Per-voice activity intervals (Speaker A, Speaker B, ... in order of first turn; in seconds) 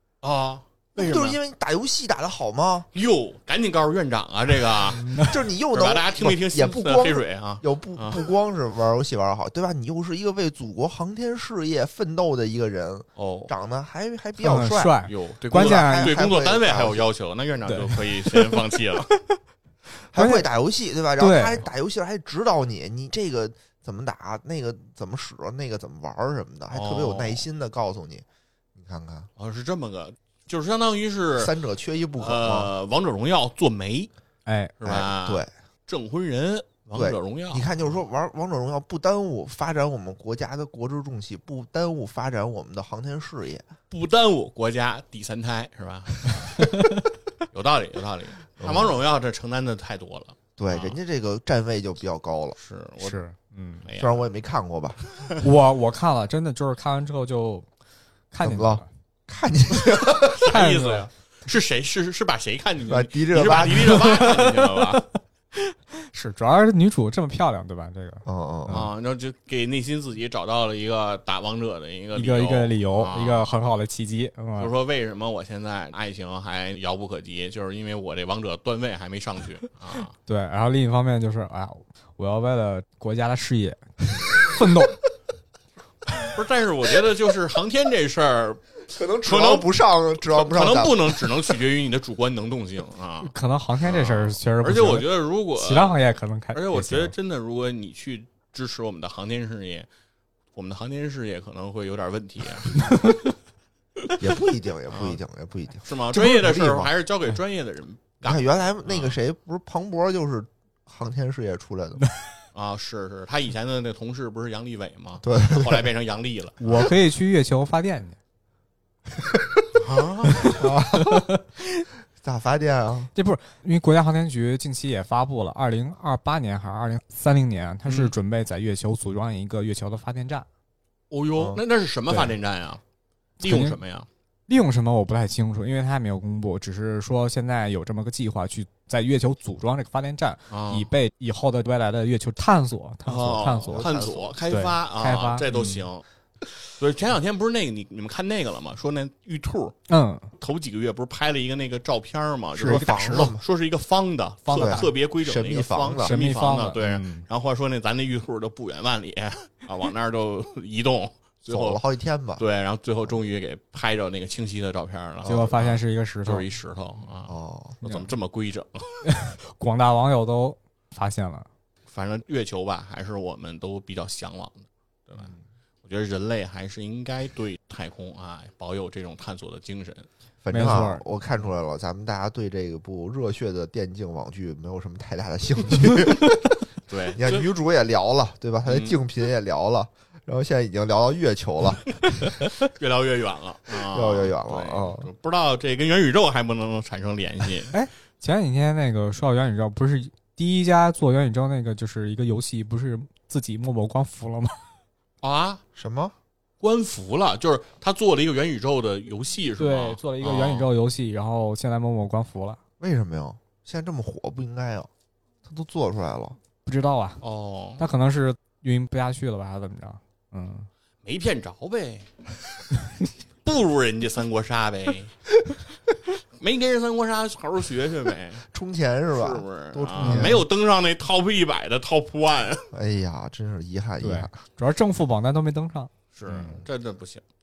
Speaker A: 0.2-1.4, 2.9-5.2, 5.7-8.2, 13.2-13.5, 15.0-19.1, 26.7-27.4, 29.4-31.5, 32.2-34.1, 34.8-37.9, 43.9-46.6, 47.5-51.0, 52.6-53.2, 53.8-54.2, 60.0-65.0, 68.7-73.5, 74.6-80.1, 86.3-89.7, 90.3-93.3, 93.8-96.0, 96.5-99.9, 100.5-102.9, 104.9-105.2, 105.8-109.2, 112.5-116.7, 119.8-120.5, 127.8-128.1, 131.1-132.8, 133.4-134.1, 140.5-140.9, 143.1-146.0, 146.7-149.8, 150.4-161.8, 162.4-168.9, 171.9-175.3, 175.8-180.1, 186.9-187.5, 188.6-189.0, 192.6-197.7, 205.2-205.6, 206.6-210.7, 217.2-217.8, 221.0-222.6, 223.4-225.1, 226.4-228.4, 229.1-232.7, 236.1-237.2
Speaker B: 0.9-2.9, 5.2-15.0, 15.5-17.1, 20.1-28.2, 28.8-29.3, 31.4-32.7, 34.8-35.5, 36.9-43.6, 48.6-49.0, 50.6-52.6, 54.0-55.0, 58.4-60.6, 62.9-64.1, 68.2-68.8, 88.9-91.4, 104.2-106.9, 108.2-112.0, 115.2-115.9, 120.4-121.3, 122.2-123.1, 131.4-131.6, 143.6-144.4, 152.6-153.4, 154.5-156.1, 161.4-162.4, 167.3-167.8, 180.4-186.6, 187.2-192.5, 193.9-195.1, 205.7-206.1, 212.8-214.9, 215.4-216.4, 228.5-230.4, 232.7-234.3
Speaker C: 5.0-5.3, 14.4-16.2, 17.7-19.3, 20.1-20.4, 21.2-21.6, 34.5-34.7, 46.5-47.1, 53.0-53.9, 55.4-57.6, 58.3-58.9, 60.5-61.1, 63.8-68.9, 72.1-74.7, 80.2-85.0, 93.2-97.1, 102.7-103.3, 116.6-118.2, 120.3-121.8, 123.1-130.4, 132.1-132.3, 133.4-133.8, 134.5-143.9, 144.5-145.9, 149.9-150.3, 152.6-153.3, 154.4-154.9, 156.0-157.2, 165.2-166.4, 169.0-171.5, 180.5-181.0, 197.7-204.6, 209.6-212.6, 216.6-217.2, 217.8-220.7, 230.0-230.4, 234.0-236.6